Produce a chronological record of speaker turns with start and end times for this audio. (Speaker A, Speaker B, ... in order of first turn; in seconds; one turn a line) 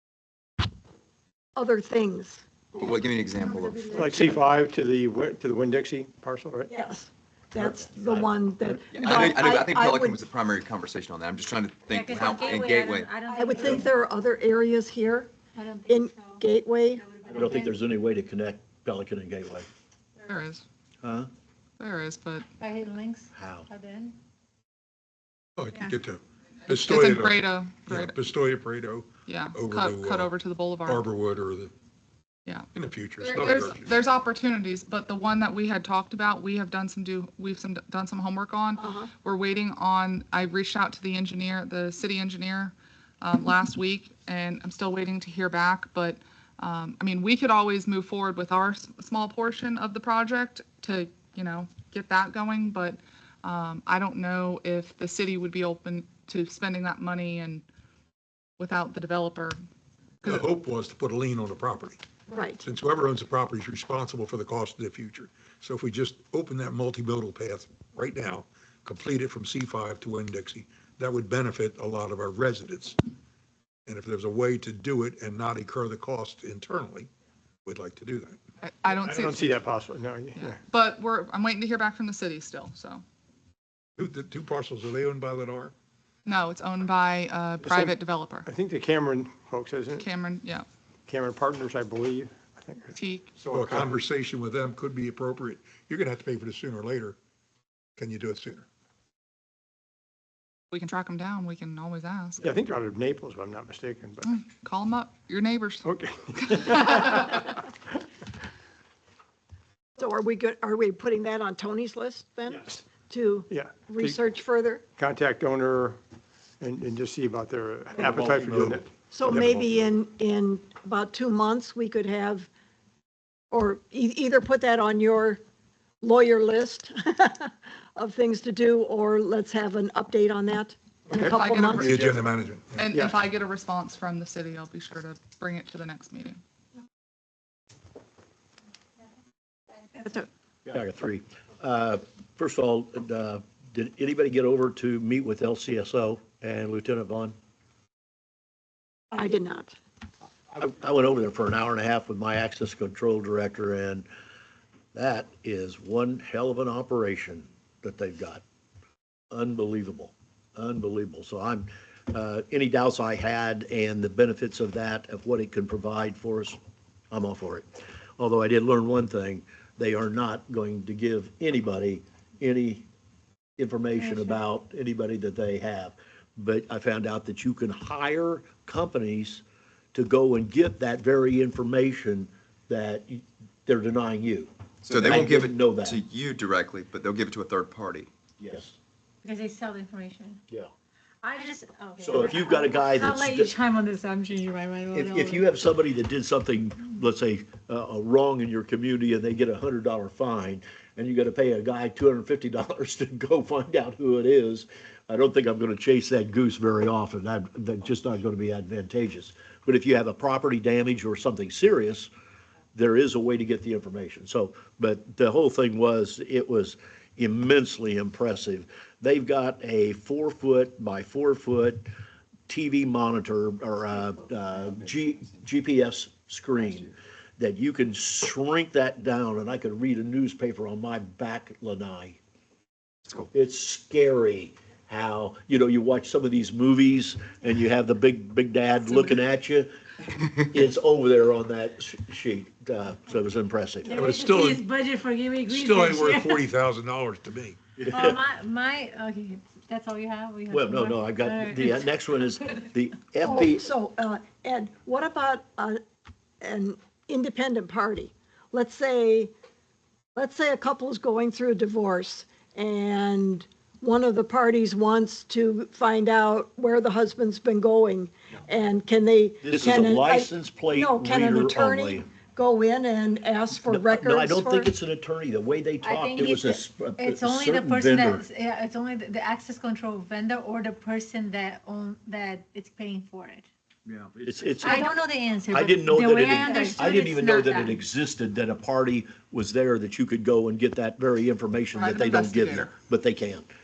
Speaker A: 1.6-2.4
Speaker B: 2.7-4.1
Speaker C: 3.9-6.7
Speaker A: 6.7-10.2
Speaker D: 7.5-8.8
Speaker B: 8.9-13.1
Speaker E: 11.9-13.9
Speaker A: 13.3-15.3
Speaker E: 15.5-16.4
Speaker A: 15.9-17.1
Speaker E: 17.1-17.5
Speaker D: 17.3-19.7
Speaker F: 20.2-20.6
Speaker D: 21.0-21.3
Speaker F: 21.8-22.4
Speaker E: 22.6-24.2
Speaker D: 23.3-23.7
Speaker G: 25.6-30.3
Speaker F: 26.7-28.2
Speaker F: 29.3-31.0
Speaker G: 30.9-31.7
Speaker G: 32.7-33.9
Speaker F: 33.2-57.6
Speaker A: 38.8-39.1
Speaker F: 58.6-59.6
Speaker G: 60.2-62.0
Speaker A: 62.3-62.6
Speaker G: 62.6-73.0
Speaker G: 73.8-77.1
Speaker G: 77.6-78.4
Speaker F: 78.6-79.5
Speaker C: 78.9-80.6
Speaker F: 80.3-83.0
Speaker G: 84.0-85.7
Speaker F: 86.2-88.5
Speaker C: 87.6-90.1
Speaker F: 90.0-90.6
Speaker C: 91.1-94.0
Speaker F: 93.0-93.3
Speaker G: 93.5-97.2
Speaker G: 98.0-98.7
Speaker F: 100.7-102.4
Speaker C: 102.4-104.3
Speaker F: 104.2-105.8
Speaker C: 105.8-107.6
Speaker F: 106.4-107.4
Speaker A: 110.0-114.8
Speaker C: 113.5-114.2
Speaker C: 115.0-116.0
Speaker C: 116.6-119.7
Speaker G: 118.0-119.4
Speaker A: 119.1-122.5
Speaker A: 123.5-125.4
Speaker A: 126.0-131.9
Speaker F: 131.2-132.1
Speaker G: 131.7-132.9
Speaker F: 132.8-136.4
Speaker A: 140.0-140.2
Speaker D: 140.7-147.3
Speaker A: 149.1-149.7
Speaker D: 150.5-154.1
Speaker D: 154.9-158.4
Speaker D: 159.3-166.6
Speaker D: 167.1-167.7
Speaker D: 168.2-172.9
Speaker D: 173.6-179.4
Speaker E: 174.0-174.4
Speaker D: 179.9-186.0
Speaker B: 184.8-188.5
Speaker D: 188.4-188.7
Speaker E: 189.2-190.4
Speaker E: 191.2-195.5
Speaker D: 192.0-193.5
Speaker D: 194.9-212.1
Speaker D: 212.7-221.9
Speaker D: 222.5-232.2
Speaker D: 233.3-239.7
Speaker D: 240.4-244.0
Speaker E: 243.8-246.5
Speaker G: 243.9-244.6
Speaker G: 245.5-247.6
Speaker D: 247.8-248.2
Speaker E: 247.8-251.9
Speaker D: 250.5-253.7
Speaker A: 253.2-255.8
Speaker A: 256.4-259.3
Speaker A: 260.1-274.7
Speaker D: 269.4-272.1
Speaker D: 273.6-278.2
Speaker E: 275.8-283.5
Speaker B: 283.9-284.2
Speaker D: 284.2-284.9
Speaker E: 284.6-287.8
Speaker D: 285.5-293.5
Speaker A: 286.5-286.9
Speaker F: 291.8-292.7